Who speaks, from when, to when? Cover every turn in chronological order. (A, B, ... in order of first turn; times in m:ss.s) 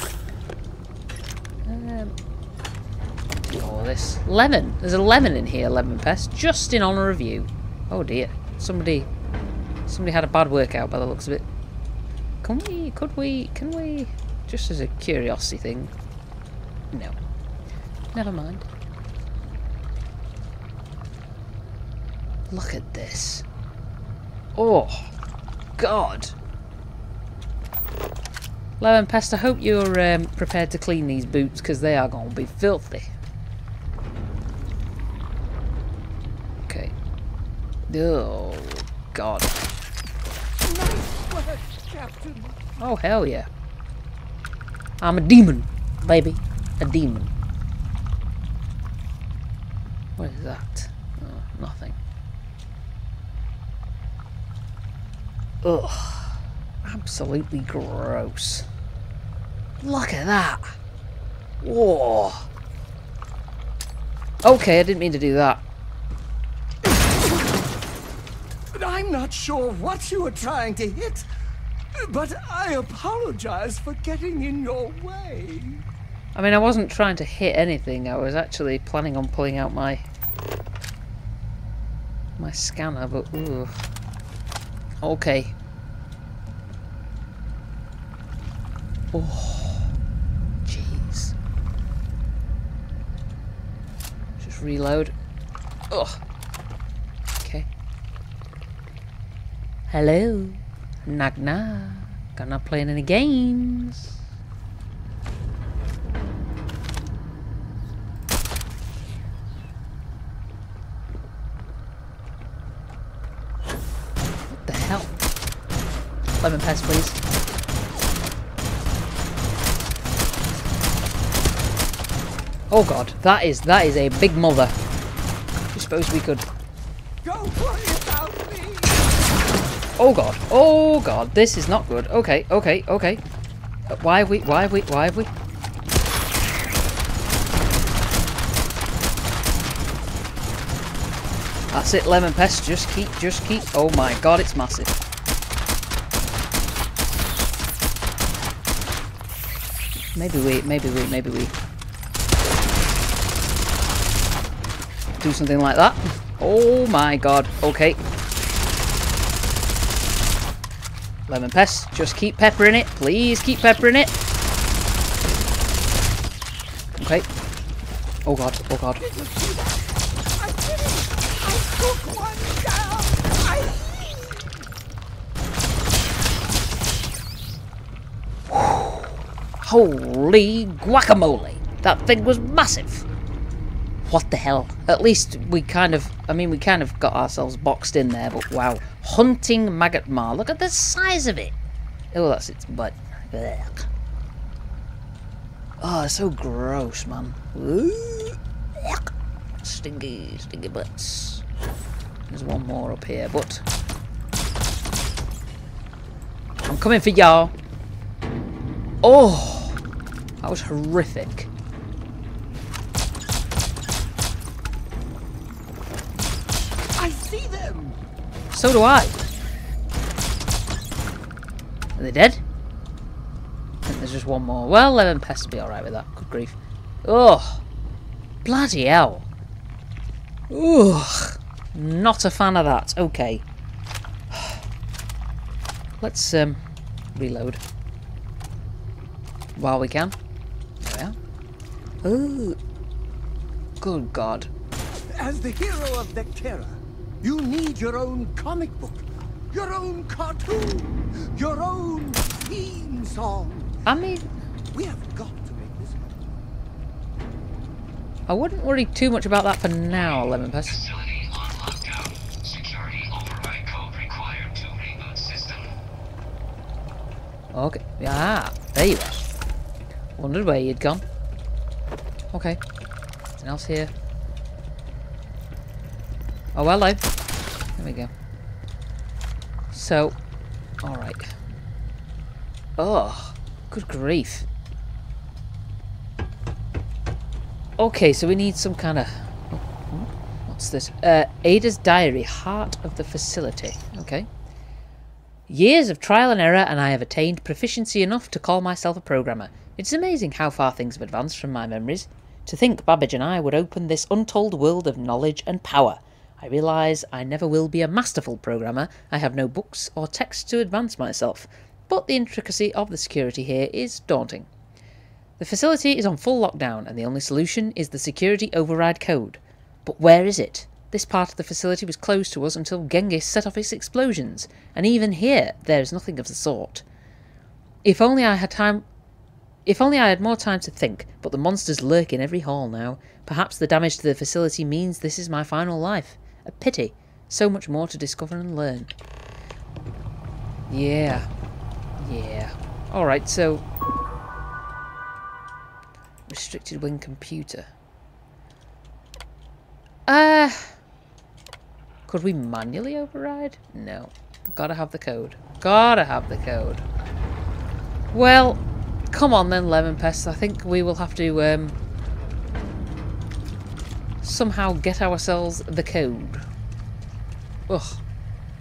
0:01.6-0:02.1 A
0:03.5-0:09.1 A
0:09.9-0:11.4 A
0:12.4-0:15.9 A
0:18.1-0:18.6 A
0:22.5-0:23.4 A
0:24.5-0:25.1 A
0:25.8-0:26.3 A
0:28.8-0:33.1 A
0:36.7-0:36.9 A
0:37.9-0:39.7 A
0:40.6-0:42.6 B
0:42.8-0:43.5 A
0:45.0-0:47.3 A
0:50.2-0:52.0 A
0:55.6-0:58.7 A
0:59.8-1:00.8 A
1:01.6-1:02.5 A
1:04.4-1:05.6 A
1:06.9-1:07.3 B
1:08.7-1:11.2 B
1:12.0-1:15.8 B
1:16.3-1:20.0 A
1:22.4-1:23.8 A
1:25.0-1:25.5 A
1:29.1-1:29.9 A
1:30.6-1:31.3 A
1:34.4-1:35.1 A
1:35.9-1:36.2 A
1:37.4-1:37.7 A
1:39.9-1:44.1 A
1:54.5-1:55.2 A
1:56.4-1:57.2 A
2:02.7-2:04.7 A
2:05.7-2:06.4 A
2:07.2-2:09.1 B
2:10.0-2:13.2 A
2:13.9-2:15.3 A
2:21.7-2:25.0 A
2:30.1-2:31.5 A
2:35.2-2:38.0 A
2:41.3-2:44.1 A
2:47.0-2:47.3 A
2:48.2-2:49.0 A
2:49.0-2:54.6 B
2:58.5-2:59.1 A
2:59.6-3:03.0 A
3:04.0-3:11.5 A
3:12.1-3:13.9 A
3:15.8-3:19.1 A
3:19.6-3:21.4 A
3:22.3-3:23.6 A
3:26.6-3:27.5 A
3:29.0-3:29.8 A
3:30.4-3:31.5 A
3:37.0-3:38.0 B
3:38.5-3:39.2 A
3:42.0-3:42.4 A
3:43.8-3:47.6 A
3:48.4-3:49.3 A
3:50.5-3:53.4 A
3:54.3-3:54.6 A
3:56.0-3:56.6 A
3:57.1-3:57.6 A
3:59.6-4:00.1 A
4:00.8-4:01.2 A
4:02.0-4:02.6 A
4:03.8-4:04.5 A
4:05.1-4:13.8 B
4:13.8-4:14.2 A
4:14.7-4:16.2 B
4:18.3-4:20.7 A
4:20.7-4:25.7 C
4:27.5-4:29.2 A
4:30.2-4:31.0 A
4:32.3-4:32.6 A
4:33.4-4:33.9 A
4:36.5-4:37.0 A
4:37.8-4:38.1 A
4:39.7-4:40.2 A
4:40.8-4:41.3 A
4:42.8-4:44.4 A
4:47.8-4:54.3 A
4:55.5-5:14.5 A
5:15.4-5:26.8 A
5:27.8-5:28.8 A
5:29.6-5:38.9 A
5:40.7-5:41.3 A
5:42.0-5:43.6 A
5:46.3-5:47.7 A
5:50.1-5:50.7 A
5:52.1-5:56.8 A
5:58.1-6:01.8 A
6:04.2-6:06.4 A
6:07.7-6:08.0 A